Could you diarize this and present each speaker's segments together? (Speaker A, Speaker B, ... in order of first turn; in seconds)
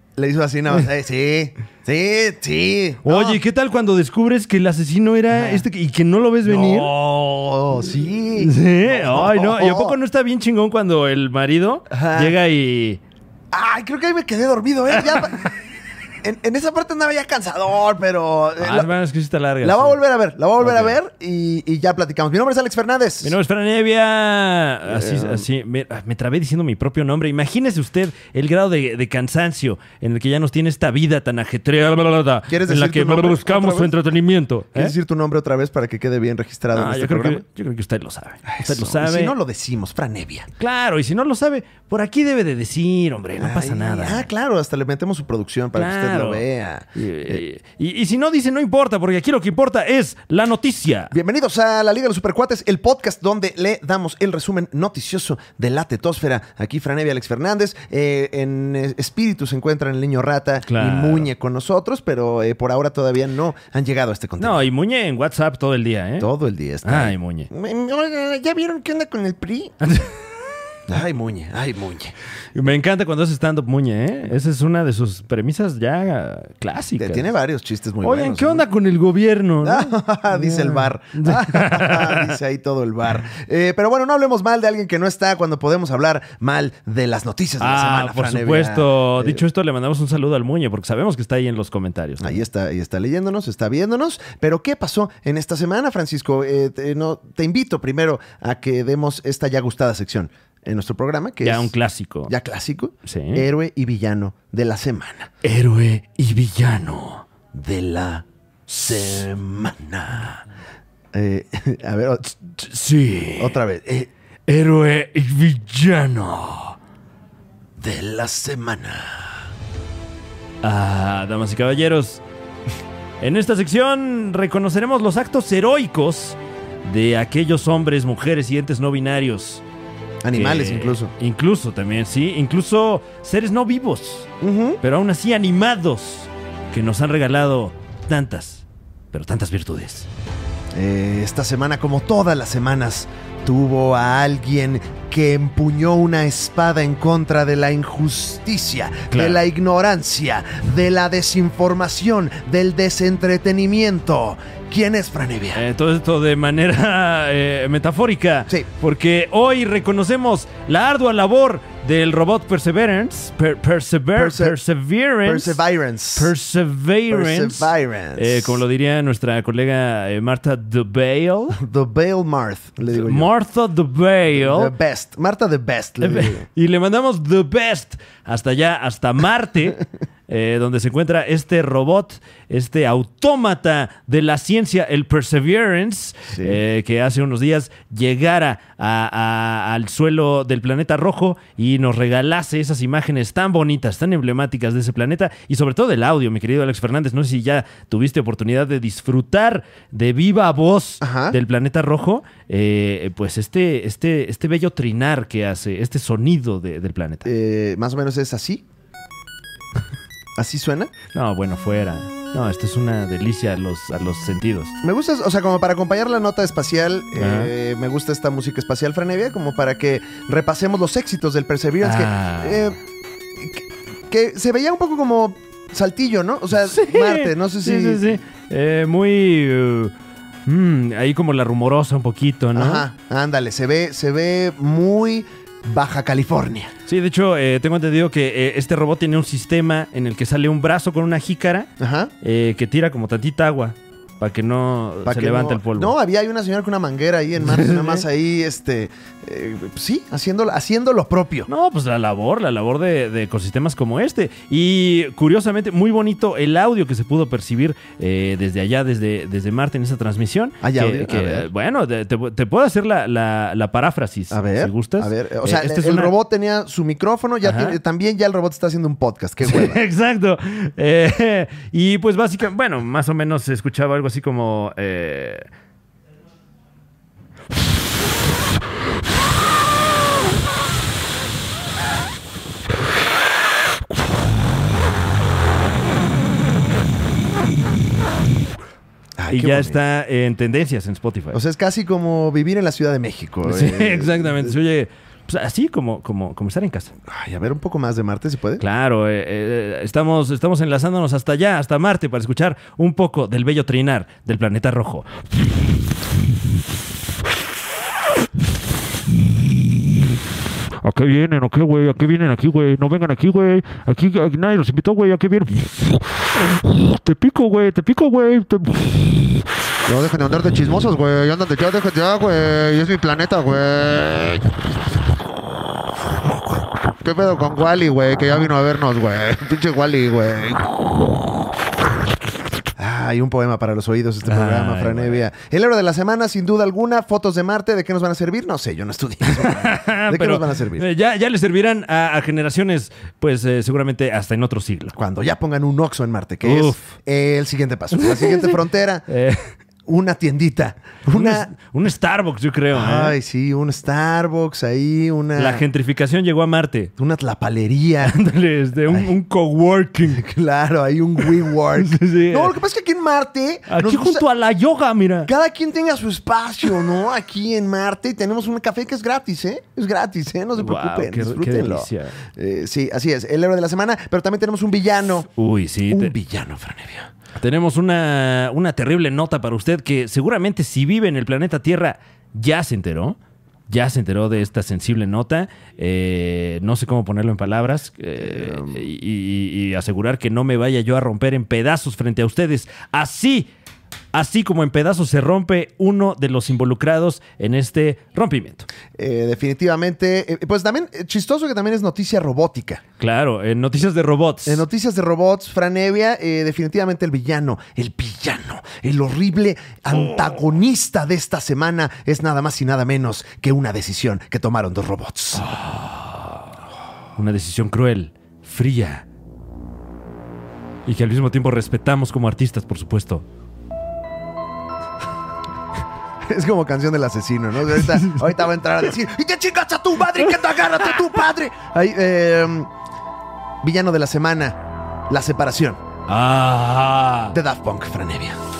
Speaker A: 0.2-3.4, 5.3-5.7, 6.4-10.0, 11.9-12.3, 13.5-15.5, 16.2-18.9, 19.6-23.4, 24.8-25.4, 32.5-33.9, 34.7-37.4, 38.5-40.5, 43.4-47.4, 51.1-64.6, 66.2-69.7, 70.9-72.1, 77.0-78.6, 79.6-89.4, 92.2-101.7, 102.3-105.3, 107.5-110.4, 111.1-112.4, 113.4-114.1, 117.8-119.4, 130.2-131.1, 134.4-134.8, 140.7-155.6, 164.1-164.6, 165.2-166.3, 167.1-168.6, 171.5-173.3, 174.3-176.4, 186.3-186.6, 201.0-201.3, 207.2-208.6, 210.4-210.9, 214.8-222.8, 223.3-228.2, 232.5-236.7, 241.8-242.1, 245.0-251.5, 260.6-261.5, 264.3-269.8, 289.2-289.8, 291.3-294.5, 297.1-298.6, 332.8-340.9, 344.9-349.0, 349.9-351.5, 352.7-355.6, 357.0-358.1, 360.1-364.2, 365.2-375.3, 375.9-377.1, 388.2-388.8, 398.9-402.8, 404.4-415.5, 426.2-432.7, 433.6-435.8, 437.3-438.4
Speaker B: 3.0-6.9, 8.3-13.0, 14.9-15.5, 18.6-20.0, 20.6-20.9, 23.2-34.9, 36.7-39.3, 40.6-44.3, 45.7-46.4, 46.9-51.1, 60.6-61.3, 64.4-66.3, 66.8-67.5, 69.8-70.1, 72.5-77.3, 78.0-82.3, 87.6-92.4, 101.4-102.3, 103.0-103.5, 105.4-107.3, 108.8-109.2, 112.5-113.6, 114.5-116.8, 120.6-122.2, 123.2-129.6, 130.3-134.3, 134.8-140.1, 149.1-149.4, 155.5-165.6, 166.2-171.6, 172.9-174.7, 176.0-207.3, 211.1-214.7, 217.1-217.5, 221.8-222.7, 226.6-229.9, 230.4-232.8, 236.8-241.7, 242.2-245.9, 247.4-248.0, 251.5-266.1, 267.4-267.8, 269.4-275.5, 289.3-291.4, 293.4-296.9, 298.6-305.2, 334.2-335.2, 339.2-344.9, 346.4-346.9, 347.9-349.5, 351.1-353.1, 355.4-356.9, 358.0-360.2, 361.5-362.5, 363.7-365.3, 370.6-372.2, 375.4-376.1, 377.4-383.2, 383.7-393.5, 394.1-398.7, 403.0-404.6, 415.3-416.4, 417.2-419.0, 420.9-423.2, 436.1-437.4
Speaker C: 310.8-319.4
Speaker D: 319.9-324.5, 327.0-330.8